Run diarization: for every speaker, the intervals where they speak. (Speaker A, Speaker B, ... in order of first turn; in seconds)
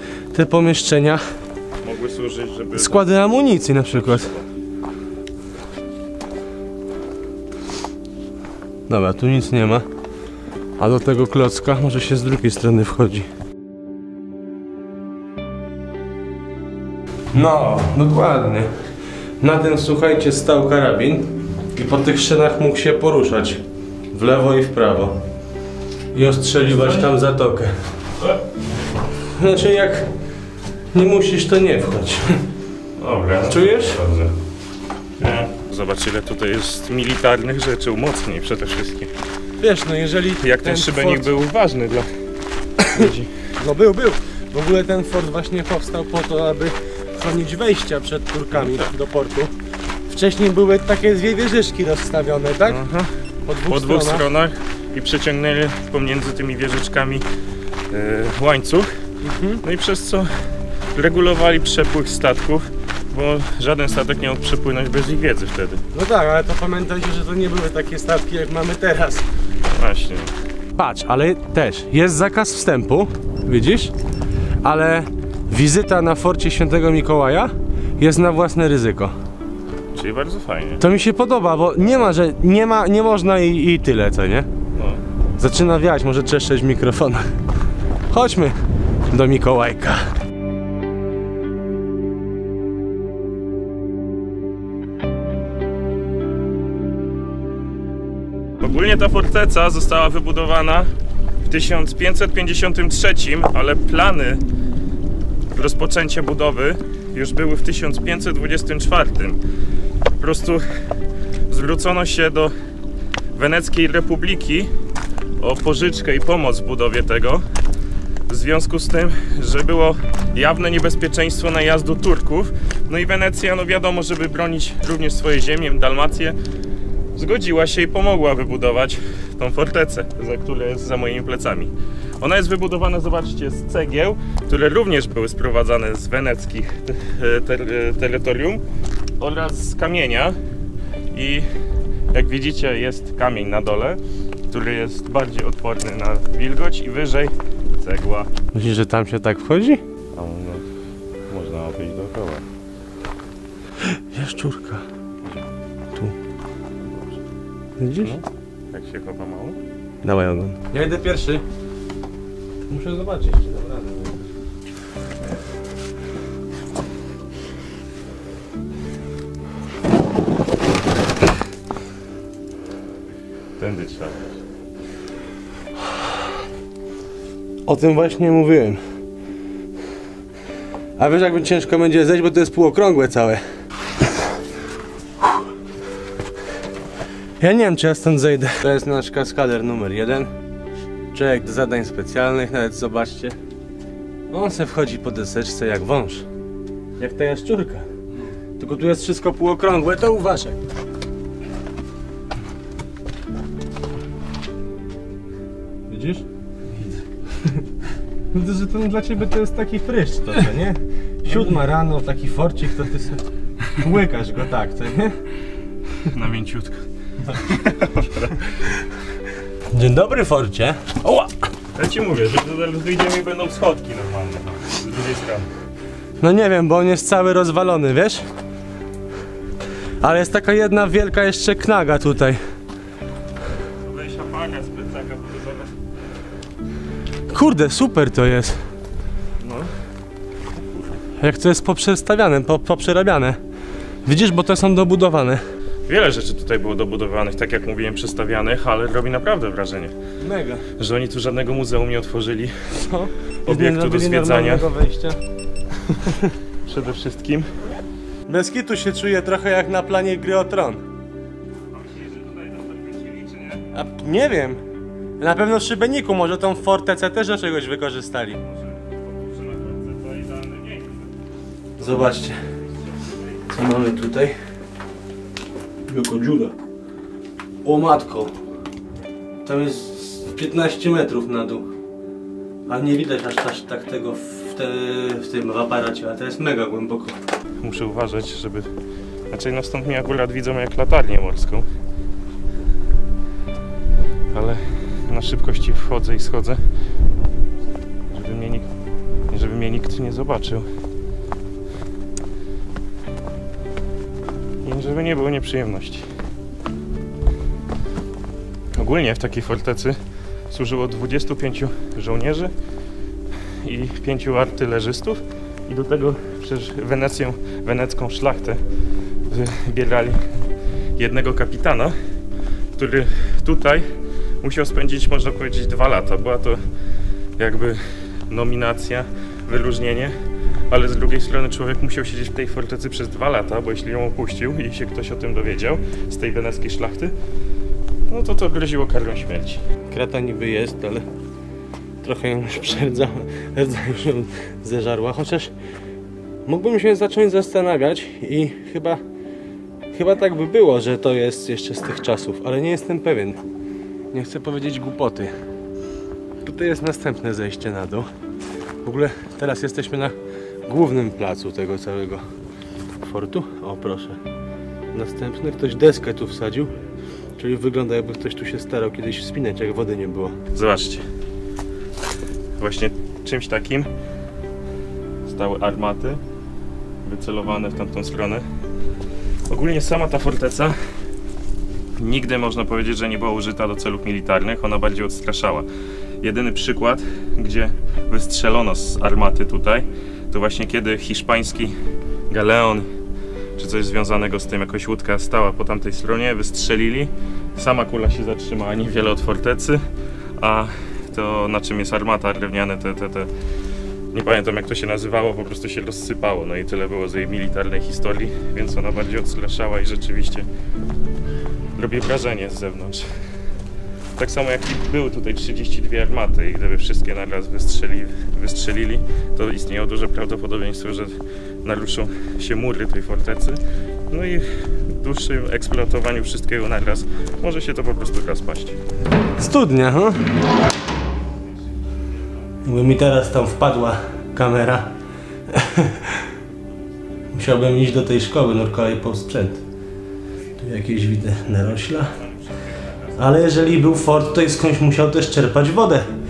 Speaker A: 0.3-1.2, 2.8-4.3, 8.9-9.9, 10.8-13.3, 17.3-18.7, 19.4-25.2, 26.1-27.8, 29.2-30.1, 30.9-32.4, 33.5-34.0, 39.6-41.3, 43.0-49.5, 50.1-52.8, 53.5-54.3, 59.2-59.6, 65.9-69.2, 70.8-73.9, 74.6-79.1, 80.8-84.5, 85.4-87.3, 88.1-88.6, 89.1-90.1, 148.5-149.8, 153.9-154.8, 157.8-158.2, 160.0-161.4, 162.7-164.2, 177.7-178.8, 181.0-183.4, 187.4-190.3, 191.1-193.4, 194.3-196.3, 197.0-197.9, 198.6-200.6, 205.9-206.2, 208.3-215.2, 219.7-221.3, 226.2-228.2, 230.0-232.4, 237.3-238.6, 241.2-243.4, 244.1-245.4, 250.2-250.7, 252.7-255.2, 258.3-260.8, 263.7-264.6, 265.2-268.4, 271.8-272.4, 273.5-274.4, 275.9-276.5, 277.6-278.3, 279.4-281.7, 282.7-287.2, 339.9-341.1, 342.0-345.5, 346.5-349.0, 349.9-353.4, 354.1-355.3, 356.4-358.1, 358.8-360.2, 360.7-362.2, 363.0-364.2, 364.9-366.7, 367.4-370.4, 429.4-430.3, 432.6-434.9, 435.5-436.2, 437.3-439.6, 440.6-442.2, 443.1-446.1
Speaker B: 1.8-4.5, 26.6-27.1, 33.0-34.3, 35.2-39.1, 40.4-42.1, 42.9-43.5, 48.5-48.9, 52.6-53.1, 53.7-57.2, 57.9-58.9, 59.6-60.3, 60.9-65.8, 69.7-70.3, 80.0-80.8, 84.7-85.0, 98.6-100.9, 101.4-104.4, 105.5-109.4, 110.2-110.9, 111.5-112.5, 113.4-114.7, 115.4-117.5, 118.3-126.4, 127.2-138.6, 139.2-140.4, 141.1-141.5, 142.1-148.3, 150.1-150.7, 151.3-152.4, 158.0-159.6, 173.6-174.3, 216.0-218.8, 221.8-225.5, 233.8-235.7, 239.4-239.7, 240.6-240.9, 245.9-249.9, 250.8-252.9, 253.5-254.7, 256.7-257.6, 261.7-263.7, 268.5-271.1, 287.6-288.7, 289.3-291.7, 294.3-296.6, 298.1-298.7, 299.3-300.7, 304.6-306.1, 308.7-310.0, 310.5-312.5, 313.6-318.6, 319.3-320.4, 321.0-321.9, 322.8-323.9, 324.4-326.6, 327.4-330.1, 330.7-337.1, 338.1-339.6, 370.5-371.0, 372.6-373.9, 375.3-376.2, 377.1-378.4, 379.5-380.8, 382.0-385.7, 386.2-391.8, 392.3-392.9, 393.6-399.8, 400.4-403.3, 404.1-410.5, 411.8-413.1, 414.2-423.6, 424.1-428.8, 442.6-443.0